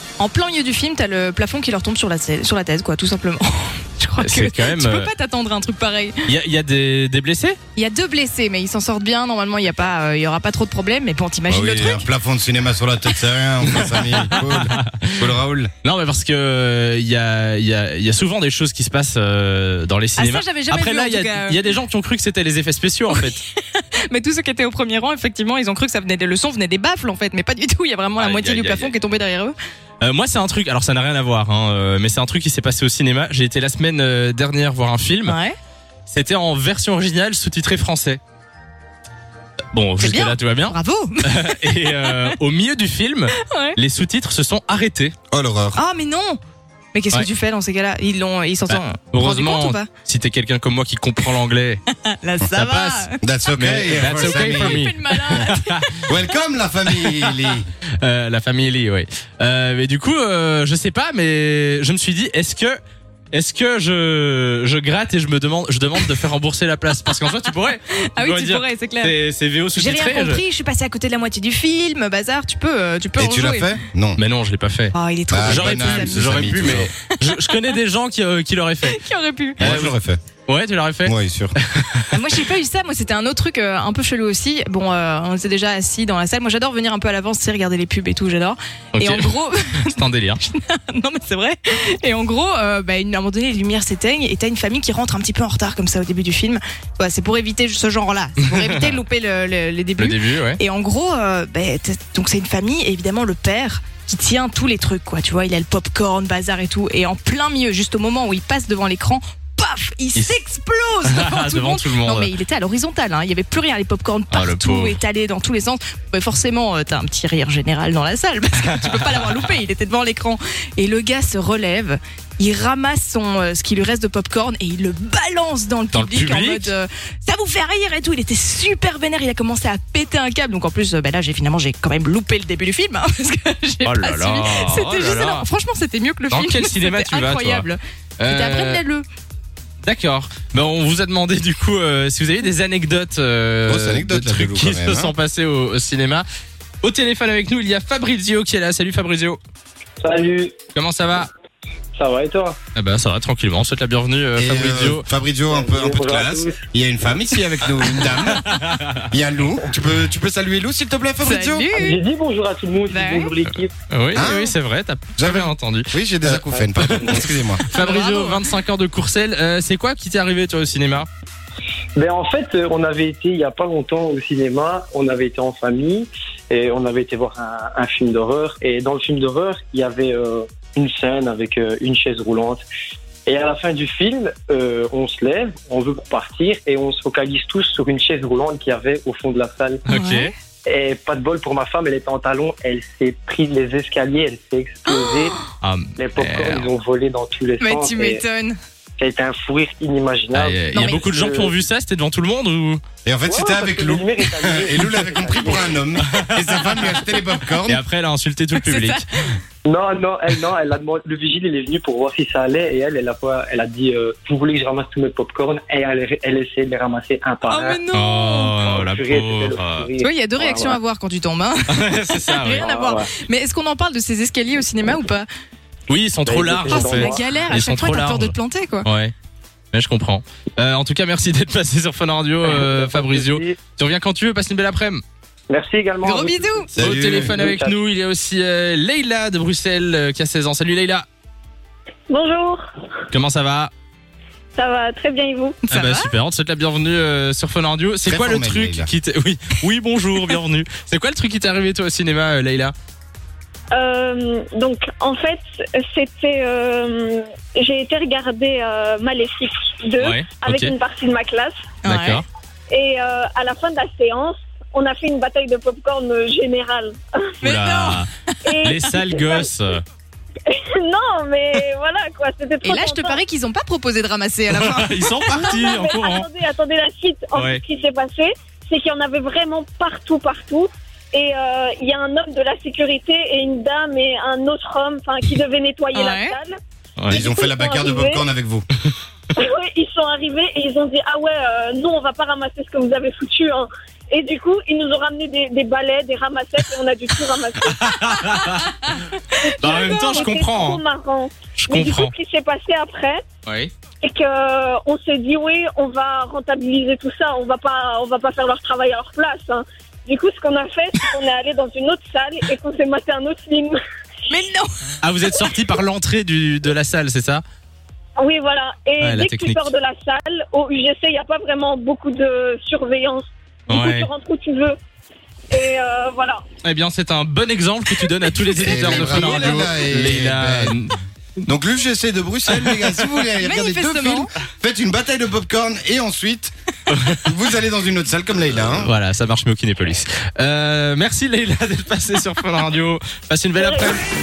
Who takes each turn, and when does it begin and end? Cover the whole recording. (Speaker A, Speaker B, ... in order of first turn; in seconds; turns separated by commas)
Speaker A: 0.2-6.3, Speaker B: 4.2-5.1, Speaker B: 6.2-7.6, Speaker A: 7.8-12.1, Speaker C: 11.5-15.7, Speaker B: 13.7-15.2, Speaker B: 15.8-23.4, Speaker A: 20.2-21.8, Speaker A: 23.1-29.6, Speaker B: 28.2-28.9, Speaker B: 30.0-35.4, Speaker A: 35.2-35.5, Speaker B: 36.1-38.2, Speaker B: 39.7-45.1, Speaker A: 40.0-42.4, Speaker A: 43.4-43.8, Speaker C: 45.3-45.8, Speaker A: 45.7-46.4, Speaker A: 46.9-49.9, Speaker B: 48.7-51.8, Speaker A: 51.9-53.2, Speaker B: 52.5-55.9, Speaker C: 53.2-55.5, Speaker A: 54.2-56.1, Speaker C: 56.0-57.7, Speaker B: 57.0-57.3, Speaker B: 58.0-62.8, Speaker B: 63.3-70.4, Speaker A: 68.0-69.1, Speaker A: 69.8-73.8, Speaker C: 73.2-74.2, Speaker B: 74.2-79.0, Speaker A: 74.9-77.7, Speaker C: 75.3-76.9, Speaker A: 78.8-79.6, Speaker B: 79.6-79.9, Speaker C: 79.6-80.2, Speaker B: 80.5-82.4, Speaker C: 81.0-81.5, Speaker A: 82.1-139.1, Speaker B: 88.9-89.3, Speaker B: 89.8-90.4, Speaker B: 98.6-99.0, Speaker B: 100.0-100.6, Speaker B: 111.0-112.3, Speaker B: 114.3-115.0, Speaker B: 125.9-126.7, Speaker B: 133.8-135.4, Speaker B: 136.3-138.8, Speaker B: 139.8-146.2, Speaker C: 143.7-145.1, Speaker B: 146.8-149.4, Speaker D: 150.0-150.5, Speaker B: 150.7-151.3, Speaker D: 151.9-152.6, Speaker B: 152.7-155.0, Speaker C: 154.3-161.7, Speaker D: 155.5-156.6, Speaker B: 158.3-159.0, Speaker A: 161.2-162.0, Speaker D: 161.7-163.7, Speaker A: 162.9-163.4, Speaker B: 163.9-171.1, Speaker C: 164.1-164.5, Speaker C: 165.2-167.6, Speaker D: 166.6-167.2, Speaker A: 167.7-168.4, Speaker D: 171.9-182.6, Speaker D: 183.2-189.8, Speaker B: 189.9-190.3, Speaker A: 189.9-190.3, Speaker D: 190.7-195.3, Speaker B: 195.6-196.7, Speaker D: 196.0-198.2, Speaker A: 197.6-198.6, Speaker D: 199.0-201.6, Speaker B: 200.3-202.8, Speaker A: 200.7-201.1, Speaker C: 203.0-207.8, Speaker D: 203.2-205.8, Speaker B: 206.0-207.1, Speaker B: 207.7-209.1, Speaker A: 208.6-209.4, Speaker D: 209.7-217.8, Speaker A: 217.4-218.6, Speaker B: 217.9-219.9, Speaker D: 218.6-220.8, Speaker A: 220.0-225.3, Speaker B: 221.7-222.7, Speaker D: 222.6-223.1, Speaker B: 225.9-229.1, Speaker D: 226.2-227.2, Speaker A: 226.7-228.9, Speaker B: 229.7-235.0, Speaker D: 232.4-233.6, Speaker D: 235.5-237.8, Speaker A: 236.0-236.7, Speaker B: 236.7-241.1, Speaker C: 236.7-237.4, Speaker E: 242.1-242.6, Speaker B: 243.1-243.7, Speaker E: 244.6-245.6, Speaker A: 245.7-246.1, Speaker B: 245.7-252.7, Speaker C: 248.0-248.9, Speaker E: 253.7-261.6, Speaker B: 260.0-260.7, Speaker A: 261.8-262.2, Speaker B: 261.8-262.2, Speaker E: 262.7-267.3, Speaker B: 267.4-268.1, Speaker A: 267.4-268.5, Speaker E: 268.4-269.5, Speaker B: 268.6-269.8, Speaker E: 270.5-273.2, Speaker A: 272.6-275.5, Speaker B: 274.5-276.2, Speaker E: 275.3-286.5, Speaker B: 277.3-277.6, Speaker A: 285.9-286.4, Speaker B: 287.0-287.2, Speaker E: 287.1-288.2, Speaker C: 287.1-288.6, Speaker E: 289.4-298.4, Speaker B: 297.6-298.8, Speaker E: 299.4-303.2, Speaker B: 299.6-300.8, Speaker B: 301.6-302.1, Speaker B: 303.4-303.7, Speaker E: 304.0-313.8, Speaker A: 314.3-314.9, Speaker B: 315.0-317.4, Speaker E: 318.2-324.8, Speaker B: 319.0-319.6, Speaker B: 323.7-324.1, Speaker E: 325.5-326.4, Speaker B: 326.6-330.9, Speaker A: 328.5-329.5, Speaker C: 328.6-330.8, Speaker C: 331.4-336.5, Speaker B: 332.5-333.0, Speaker A: 333.4-334.3, Speaker B: 336.9-337.3, Speaker C: 337.2-338.9, Speaker B: 338.5-344.0, Speaker E: 343.6-344.0